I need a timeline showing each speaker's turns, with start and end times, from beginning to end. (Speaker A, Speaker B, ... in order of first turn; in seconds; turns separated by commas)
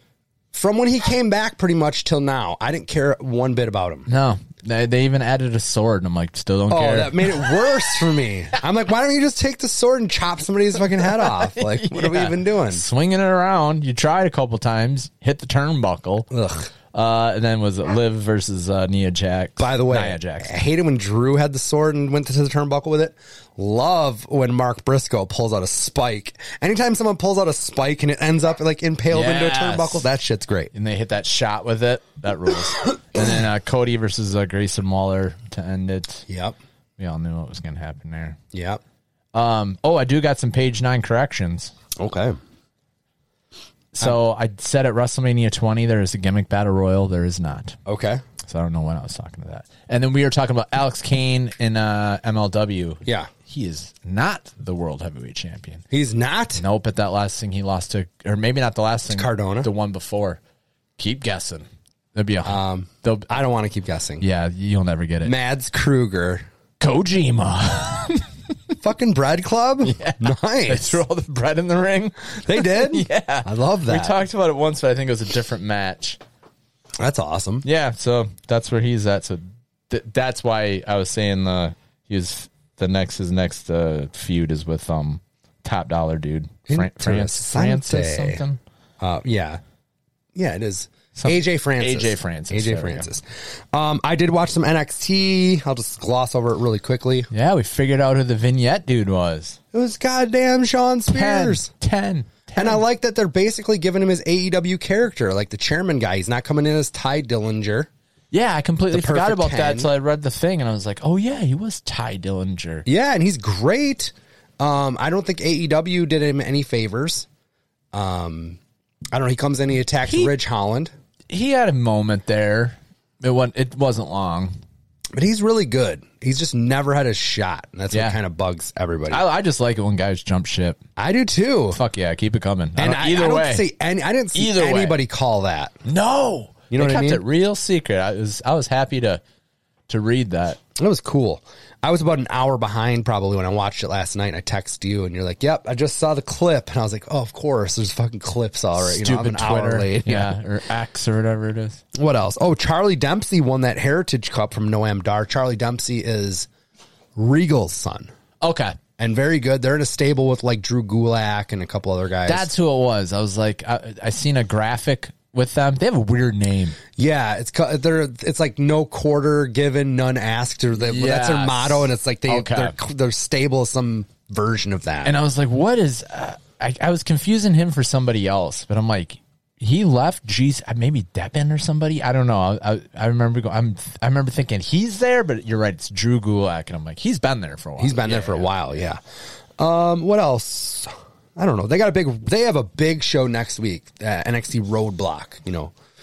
Speaker A: 0.5-4.1, Speaker B: 4.1-7.7, Speaker A: 6.7-12.8, Speaker B: 11.0-16.3, Speaker A: 16.3-16.7, Speaker B: 16.9-20.5, Speaker A: 19.6-30.7, Speaker B: 29.1-30.0, Speaker B: 30.7-36.2, Speaker A: 36.3-36.5, Speaker B: 37.0-38.4, Speaker A: 38.5-38.8, Speaker B: 39.3-41.7, Speaker A: 42.0-42.4, Speaker B: 43.9-47.8, Speaker A: 47.9-48.2, Speaker B: 48.4-55.8, Speaker A: 53.0-53.3, Speaker A: 55.9-56.6, Speaker B: 56.6-60.4, Speaker A: 59.1-59.7, Speaker B: 61.0-63.3, Speaker A: 62.4-64.2, Speaker B: 64.2-65.3, Speaker A: 65.2-66.4, Speaker B: 66.8-68.2, Speaker A: 68.8-71.0, Speaker B: 69.8-76.2, Speaker A: 72.4-74.1, Speaker A: 77.0-77.7, Speaker B: 77.6-88.6, Speaker A: 86.7-88.4, Speaker A: 89.0-89.6, Speaker A: 90.3-97.3, Speaker B: 91.1-93.1, Speaker B: 97.3-99.6, Speaker A: 99.7-101.7, Speaker B: 101.1-102.8, Speaker A: 102.5-107.9, Speaker B: 108.3-112.8, Speaker A: 108.9-109.9, Speaker A: 112.8-117.3, Speaker A: 117.9-118.6, Speaker A: 119.1-120.9, Speaker B: 120.0-120.3, Speaker B: 121.3-124.5, Speaker A: 125.1-129.2, Speaker B: 127.9-128.2, Speaker B: 129.1-130.8, Speaker A: 131.0-131.8, Speaker B: 131.7-133.7, Speaker A: 132.8-135.8, Speaker B: 134.3-135.0, Speaker B: 135.8-139.2, Speaker A: 136.7-137.2, Speaker B: 139.9-140.6, Speaker A: 140.8-150.3, Speaker B: 148.8-151.8, Speaker A: 151.9-156.5, Speaker A: 157.2-158.1, Speaker B: 158.4-158.8, Speaker A: 159.0-162.5, Speaker B: 162.2-166.8, Speaker A: 167.0-175.1, Speaker B: 170.8-172.8, Speaker B: 175.0-188.5, Speaker A: 187.8-189.0, Speaker A: 189.6-195.7